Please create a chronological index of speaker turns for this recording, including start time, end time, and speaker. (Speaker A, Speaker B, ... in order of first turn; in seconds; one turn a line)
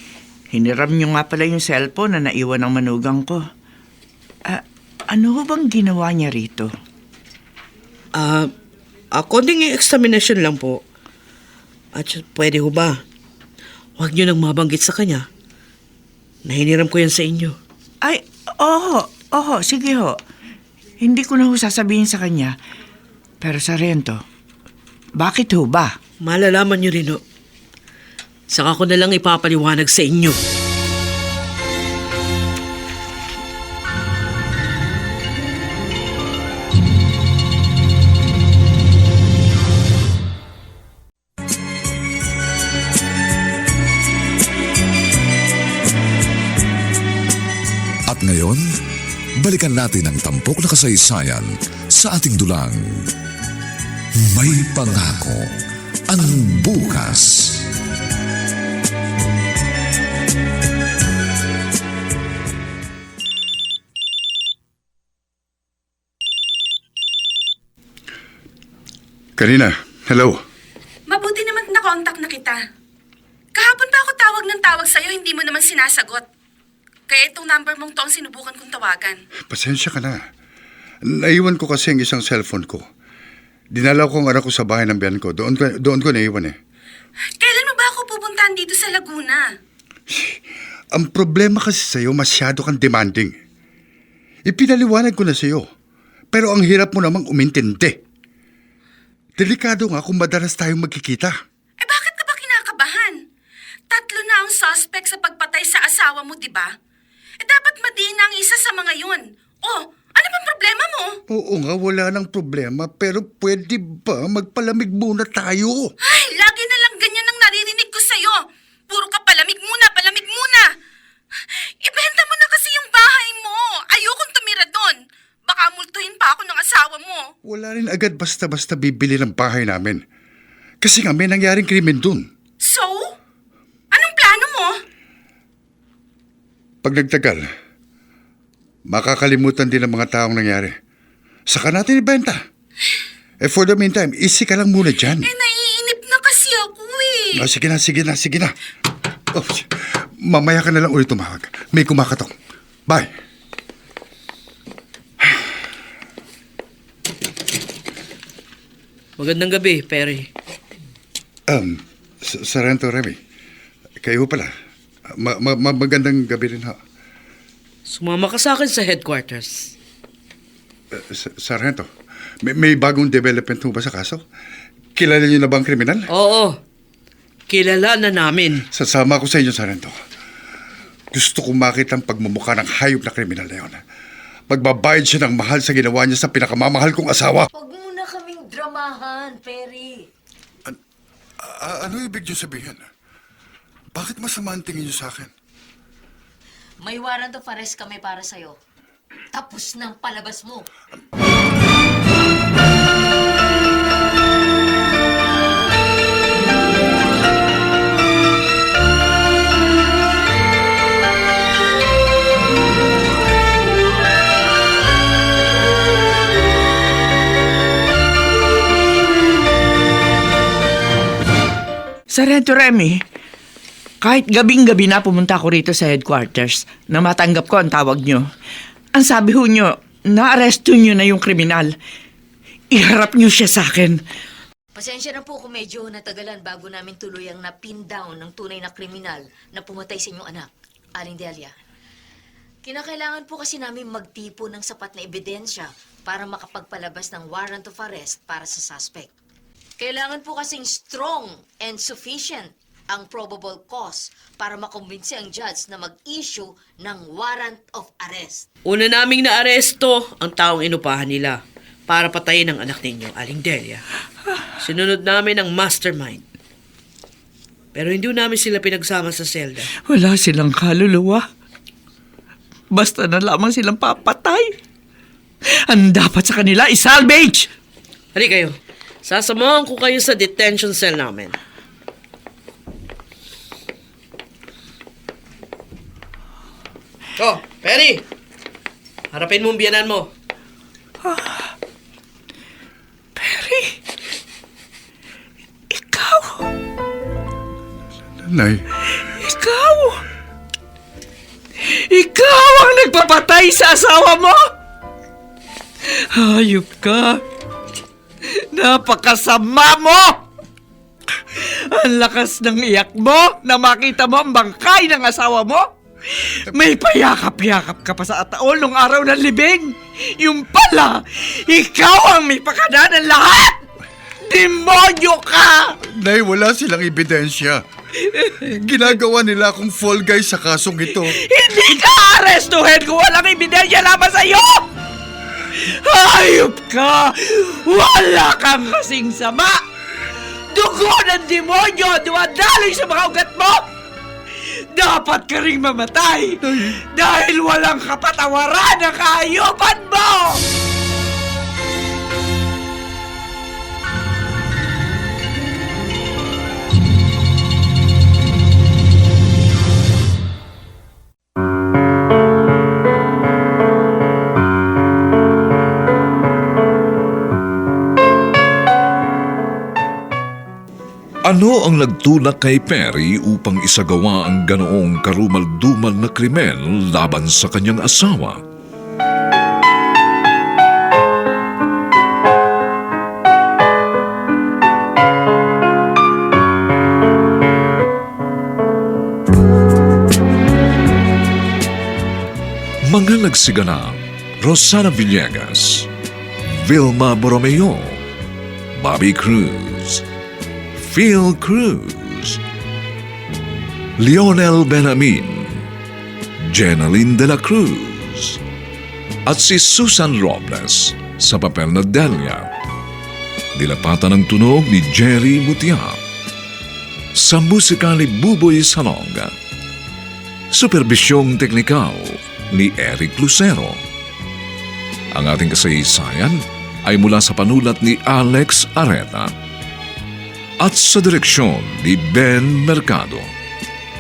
Speaker A: 0.5-3.4
Speaker A: 4.5-6.7
Speaker B: 8.2-8.5
Speaker B: 9.1-10.8
Speaker B: 11.9-13.0
Speaker B: 14.0-15.2
Speaker B: 16.4-17.6
Speaker A: 18.0-20.2
Speaker A: 21.0-22.5
Speaker A: 23.4-24.2
Speaker A: 25.2-25.9
Speaker B: 26.2-27.2
Speaker B: 28.5-30.4
Speaker C: 48.1-48.7
Speaker C: 49.4-53.1
Speaker C: 54.2-55.5
Speaker C: 56.1-57.7
Speaker D: 69.4-70.4
Speaker E: 71.1-72.6
Speaker E: 73.5-76.2
Speaker E: 77.1-79.2
Speaker D: 79.5-80.2
Speaker D: 81.0-82.8
Speaker D: 83.7-86.5
Speaker E: 87.4-89.5
Speaker D: 90.1-90.4
Speaker D: 90.9-93.3
Speaker D: 94.5-95.7
Speaker D: 96.3-98.0
Speaker D: 99.4-101.3
Speaker E: 101.8-103.2
Speaker E: 103.9-106.7
Speaker E: 107.4-111.1
Speaker D: 111.3-115.9
Speaker E: 116.0-120.7
Speaker E: 121.8-127.3
Speaker D: 127.5-130.0
Speaker D: 130.8-132.2
Speaker E: 132.6-133.1
Speaker E: 133.9-134.7
Speaker D: 136.8-137.4
Speaker D: 138.9-140.8
Speaker D: 141.5-142.4
Speaker D: 143.4-145.3
Speaker E: 145.2-147.4
Speaker D: 147.4-148.5
Speaker D: 149.3-149.7
Speaker D: 150.2-152.3
Speaker B: 159.2-160.3
Speaker D: 161.5-163.2
Speaker D: 164.0-164.5
Speaker D: 165.2-166.8
Speaker B: 167.9-169.7
Speaker D: 170.9-171.9
Speaker D: 172.4-174.2
Speaker D: 174.9-176.1
Speaker B: 176.1-176.6
Speaker B: 177.5-178.6
Speaker D: 178.7-179.9
Speaker D: 181.1-183.8
Speaker D: 184.5-187.5
Speaker F: 187.5-190.1
Speaker D: 191.4-192.8
Speaker D: 193.9-195.3
Speaker F: 196.8-198.6
Speaker F: 199.3-200.6
Speaker A: 222.1-223.0
Speaker A: 224.0-228.2
Speaker A: 228.9-231.7
Speaker A: 232.7-234.0
Speaker F: 234.8-241.5
Speaker F: 242.6-249.1
Speaker F: 249.8-258.4
Speaker B: 258.6-261.4
Speaker B: 261.9-263.8
Speaker B: 264.6-266.2
Speaker B: 267.7-269.7
Speaker A: 269.8-271.2
Speaker A: 272.7-274.5
Speaker A: 275.7-277.5
Speaker B: 278.1-281.4
Speaker B: 287.2-288.0
Speaker B: 289.1-290.1
Speaker A: 291.0-291.5
Speaker A: 293.1-293.8
Speaker A: 295.7-296.5
Speaker D: 298.2-298.6
Speaker A: 299.1-300.0
Speaker A: 301.7-304.4
Speaker A: 306.0-307.2
Speaker A: 308.3-310.2
Speaker A: 311.2-323.6
Speaker A: 324.2-325.7
Speaker D: 326.0-327.6
Speaker D: 328.4-331.2
Speaker A: 330.9-334.6
Speaker A: 335.5-339.6
Speaker A: 340.5-343.6
Speaker A: 344.7-350.4
Speaker G: 371.3-378.4
Speaker G: 392.8-395.9
Speaker G: 396.6-398.0
Speaker G: 398.8-400.0
Speaker G: 400.8-402.4
Speaker G: 404.0-405.6
Speaker G: 406.5-408.4
Speaker G: 409.3-412.5
Speaker G: 413.6-416.0
Speaker G: 417.1-419.3
Speaker G: 420.5-423.8
Speaker G: 425.1-429.3
Speaker G: 430.6-433.3